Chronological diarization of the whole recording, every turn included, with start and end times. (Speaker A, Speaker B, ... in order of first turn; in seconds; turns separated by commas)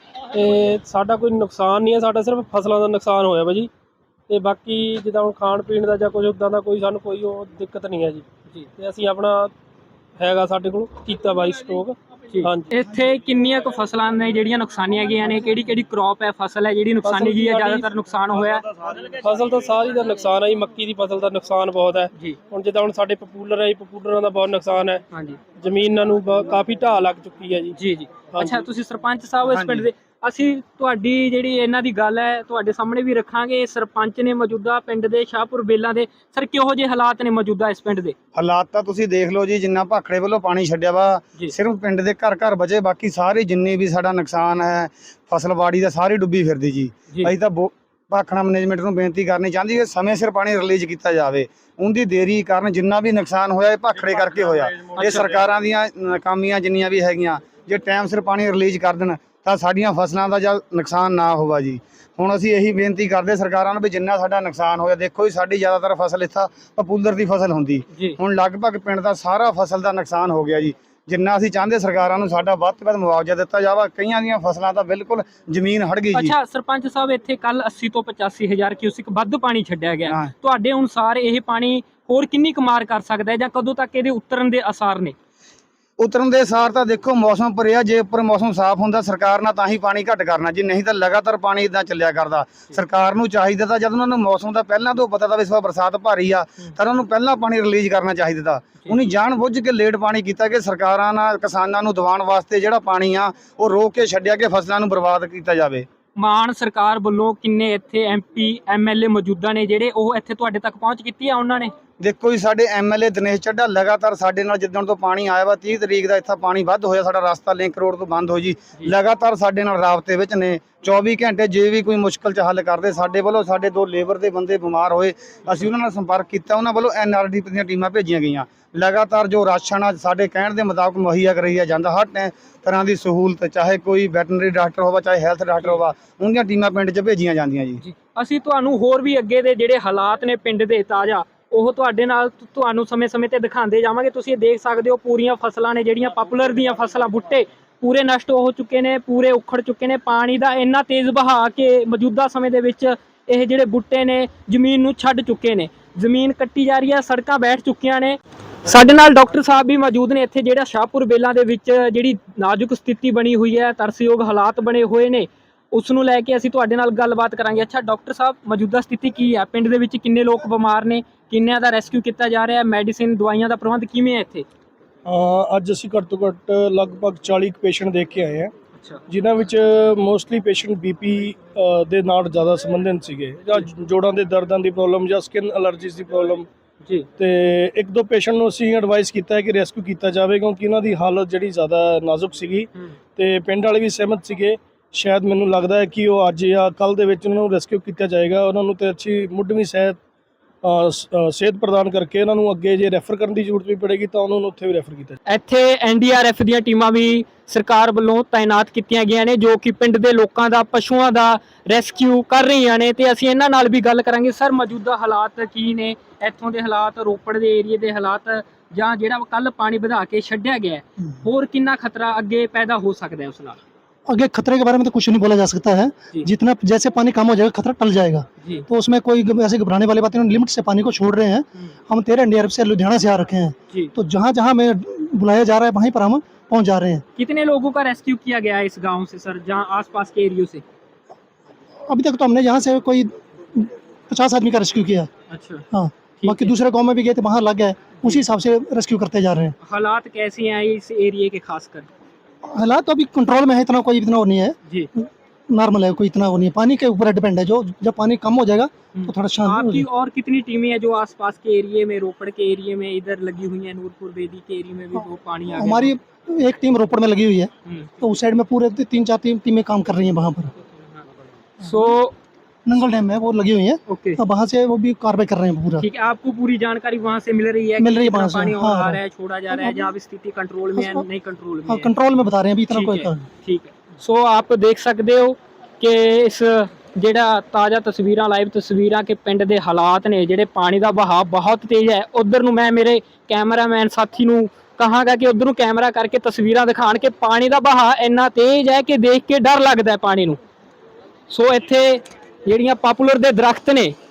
Speaker A: 0.3-3.7, Speaker A: 4.3-8.2, Speaker A: 8.8-9.5, Speaker A: 10.2-12.7, Speaker B: 12.3-18.7, Speaker A: 17.0-17.9, Speaker A: 18.9-25.0, Speaker B: 25.1-25.4, Speaker A: 25.6-27.8, Speaker B: 27.7-38.1, Speaker A: 28.3-28.6, Speaker C: 29.5-29.9, Speaker C: 38.3-76.3, Speaker B: 55.0-55.2, Speaker B: 76.1-85.1, Speaker C: 86.0-105.9, Speaker B: 106.2-111.7, Speaker C: 112.0-137.8, Speaker B: 137.8-174.4, Speaker D: 175.1-178.5, Speaker B: 178.8-179.0, Speaker D: 179.1-186.5, Speaker D: 187.2-200.0, Speaker D: 200.6-205.2, Speaker B: 205.3-223.6, Speaker E: 224.1-237.0, Speaker B: 237.2-240.6, Speaker E: 241.8-245.1, Speaker B: 245.3-245.6, Speaker E: 245.7-249.6, Speaker B: 246.2-246.5, Speaker B: 249.6-251.9, Speaker E: 252.5-259.9, Speaker B: 258.9-265.9, Speaker E: 265.5-270.5, Speaker B: 271.6-272.1, Speaker E: 272.6-275.9, Speaker B: 273.9-274.2, Speaker B: 275.8-281.9, Speaker E: 277.8-279.9, Speaker E: 280.7-281.1, Speaker E: 281.7-283.2, Speaker B: 282.7-300.4, Speaker B: 301.3-303.9